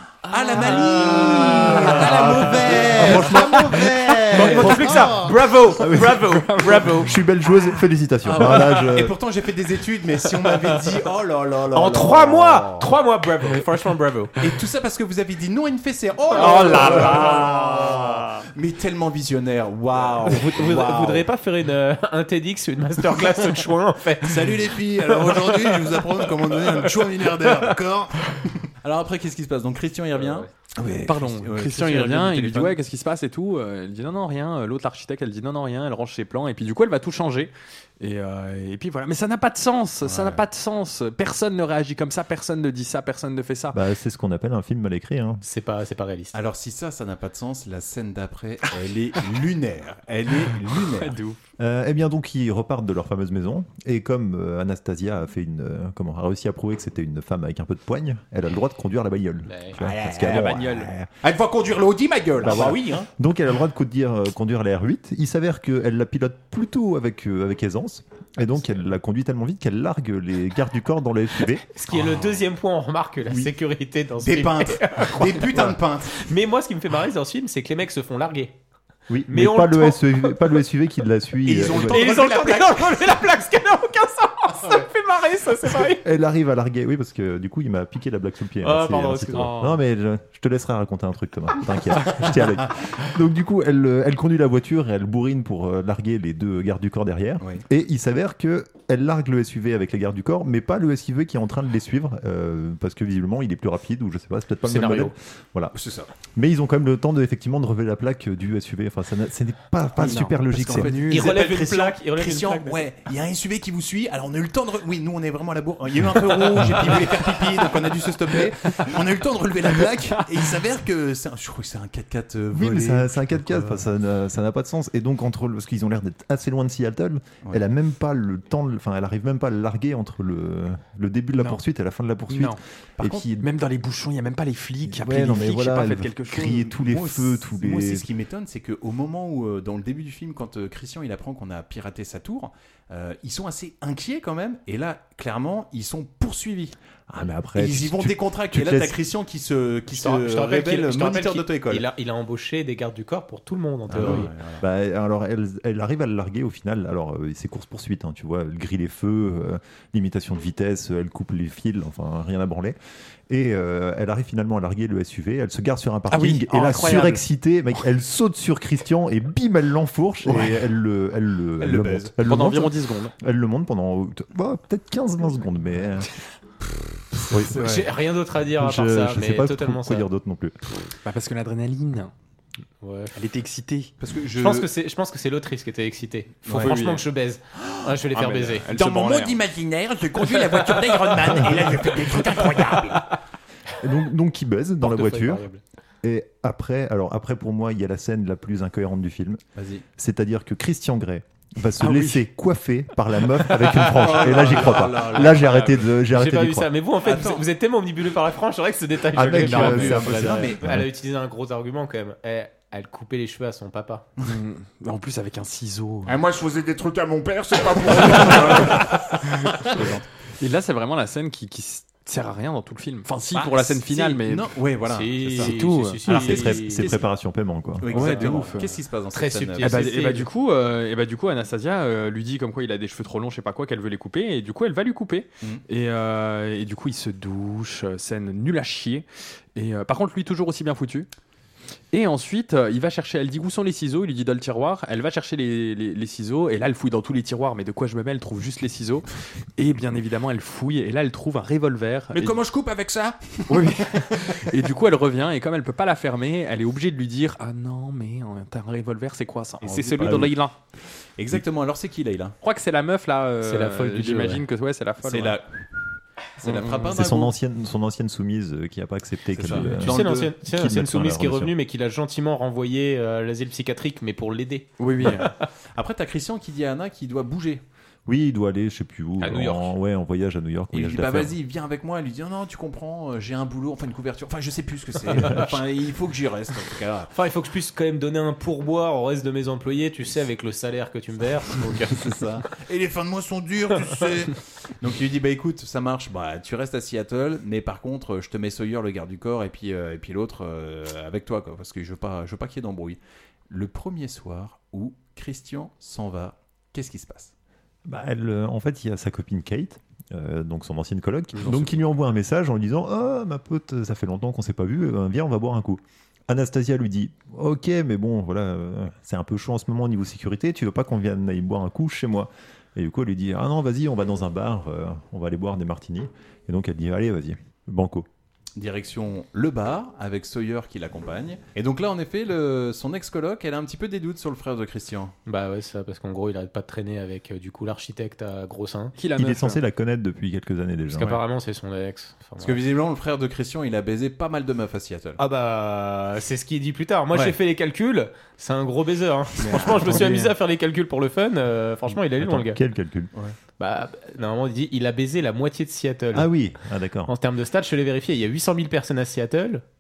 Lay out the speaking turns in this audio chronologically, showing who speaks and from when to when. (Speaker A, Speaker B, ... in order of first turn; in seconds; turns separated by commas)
Speaker A: 0.2-3.7, Speaker B: 0.3-5.4, Speaker C: 1.9-5.1, Speaker D: 3.1-3.4, Speaker A: 4.3-7.1, Speaker D: 4.4-4.7, Speaker C: 5.8-9.2, Speaker D: 6.5-6.9, Speaker B: 8.2-12.9, Speaker A: 11.7-14.3, Speaker B: 14.4-21.3, Speaker A: 16.4-18.2, Speaker A: 20.3-24.5, Speaker B: 24.2-32.8, Speaker A: 25.1-27.3, Speaker A: 30.1-30.5, Speaker D: 31.0-43.8, Speaker B: 40.0-40.4, Speaker C: 43.7-45.4, Speaker A: 45.4-46.4, Speaker B: 46.3-51.2, Speaker D: 50.8-51.4, Speaker C: 51.6-61.1, Speaker A: 59.5-59.8, Speaker B: 59.8-63.1, Speaker D: 60.2-60.9, Speaker C: 62.4-71.6, Speaker A: 71.7-78.5, Speaker B: 74.2-76.3, Speaker C: 79.1-82.0, Speaker A: 79.3-80.4, Speaker B: 81.5-83.2, Speaker A: 81.9-86.0, Speaker C: 86.0-105.8, Speaker A: 88.6-89.5, Speaker D: 89.3-89.8, Speaker A: 104.7-105.1, Speaker B: 105.7-106.1, Speaker C: 106.3-111.0, Speaker D: 110.0-111.4, Speaker B: 110.0-123.9, Speaker A: 111.1-112.9, Speaker C: 122.5-133.5, Speaker D: 132.3-132.6, Speaker D: 133.4-136.7, Speaker C: 134.9-138.1, Speaker B: 136.7-146.8, Speaker C: 147.1-149.0, Speaker B: 147.6-151.9, Speaker A: 149.9-154.3, Speaker B: 153.9-154.6, Speaker C: 153.9-162.8, Speaker C: 163.3-176.1, Speaker D: 166.1-167.2, Speaker B: 171.6-172.1, Speaker D: 172.3-173.1, Speaker B: 177.1-177.9, Speaker C: 177.3-177.6, Speaker A: 177.6-180.1, Speaker C: 178.6-180.6, Speaker D: 181.1-182.1, Speaker A: 182.8-183.1, Speaker D: 183.2-183.9, Speaker B: 184.0-184.7, Speaker A: 184.3-188.7, Speaker D: 186.6-187.1, Speaker B: 187.6-187.9, Speaker D: 188.1-189.4, Speaker B: 188.7-193.1, Speaker D: 190.2-191.2, Speaker D: 191.7-192.9, Speaker C: 193.8-195.4, Speaker A: 194.8-195.6, Speaker C: 196.0-199.4, Speaker B: 199.6-199.8, Speaker C: 200.0-206.7, Speaker D: 201.8-202.2, Speaker A: 203.5-214.1, Speaker B: 203.9-205.6, Speaker B: 207.0-207.5, Speaker C: 209.1-210.9, Speaker B: 209.4-210.6, Speaker D: 214.2-216.3, Speaker E: 216.1-218.8, Speaker D: 218.0-218.8, Speaker B: 218.1-218.8, Speaker B: 219.6-220.1, Speaker D: 220.4-224.5, Speaker B: 223.3-227.1, Speaker A: 224.9-226.9, Speaker D: 225.3-226.0, Speaker C: 226.0-228.2, Speaker B: 227.8-229.9, Speaker D: 227.9-228.7, Speaker A: 228.0-230.3, Speaker D: 229.6-241.1, Speaker D: 241.9-252.4, Speaker B: 252.1-253.7, Speaker D: 253.5-260.6, Speaker B: 259.6-260.4, Speaker B: 261.2-262.4, Speaker D: 262.4-265.4, Speaker A: 263.4-264.4, Speaker B: 265.0-265.7, Speaker B: 266.4-267.3, Speaker D: 266.4-266.9, Speaker C: 266.9-271.5, Speaker B: 269.3-270.3, Speaker A: 269.8-275.4, Speaker D: 274.8-275.3, Speaker B: 275.0-277.6, Speaker C: 278.1-281.4, Speaker A: 279.2-279.7, Speaker B: 280.7-287.1, Speaker A: 287.1-292.0, Speaker B: 291.7-307.3, Speaker C: 307.9-328.1, Speaker B: 311.4-311.7, Speaker B: 328.6-335.1, Speaker A: 335.3-338.9, Speaker D: 339.0-339.6, Speaker C: 339.1-341.2, Speaker A: 340.9-342.6, Speaker B: 342.4-345.2, Speaker A: 345.2-352.6, Speaker B: 349.4-350.3, Speaker C: 349.9-350.2, Speaker C: 351.9-353.1, Speaker A: 353.6-356.3, Speaker C: 356.1-357.1, Speaker A: 357.1-359.6